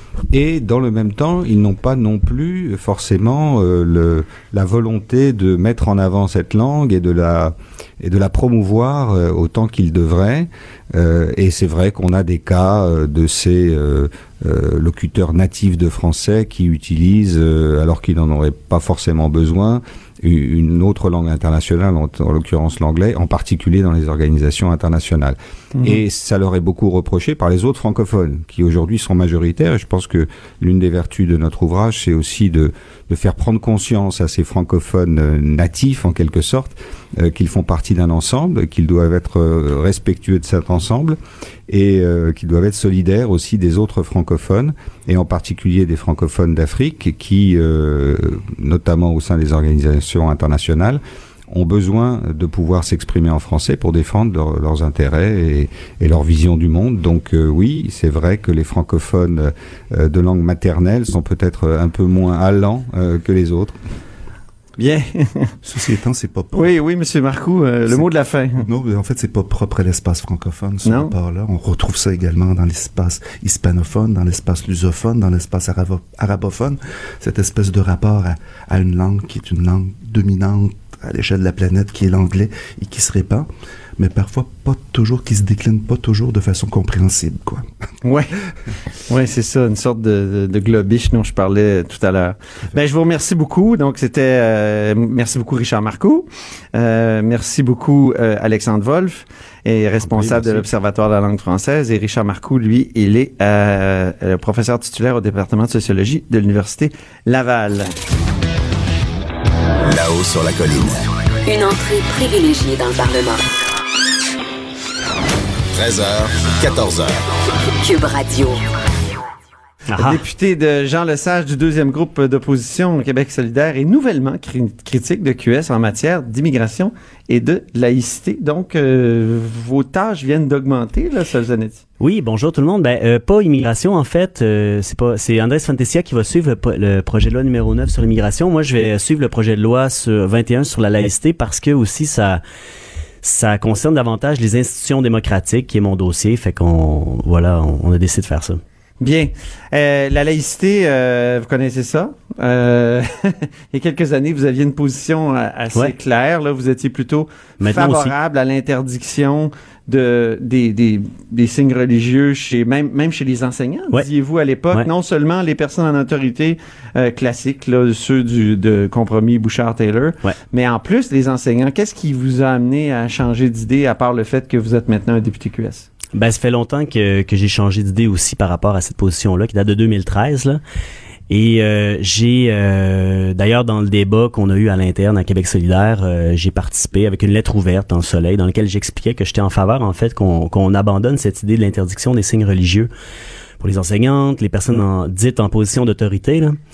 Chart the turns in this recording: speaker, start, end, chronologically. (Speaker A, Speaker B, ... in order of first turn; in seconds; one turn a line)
Speaker A: 0.3-63.8
Speaker B: 64.8-65.5
Speaker C: 65.6-66.7
Speaker B: 66.5-68.6
Speaker C: 67.9-83.5
Speaker B: 70.8-71.1
Speaker C: 84.0-87.7
Speaker B: 88.0-88.3
Speaker B: 89.1-107.9
Speaker A: 100.0-100.7
Speaker D: 109.8-111.0
Speaker E: 111.5-113.4
Speaker D: 115.7-117.2
Speaker E: 117.8-118.6
Speaker F: 119.9-120.2
Speaker B: 120.0-131.8
Speaker F: 132.0-142.4
Speaker F: 143.2-148.6
Speaker B: 149.0-175.9
Speaker F: 157.6-158.1
Speaker F: 176.1-180.6
Speaker F: 181.3-192.9
Speaker F: 193.6-196.6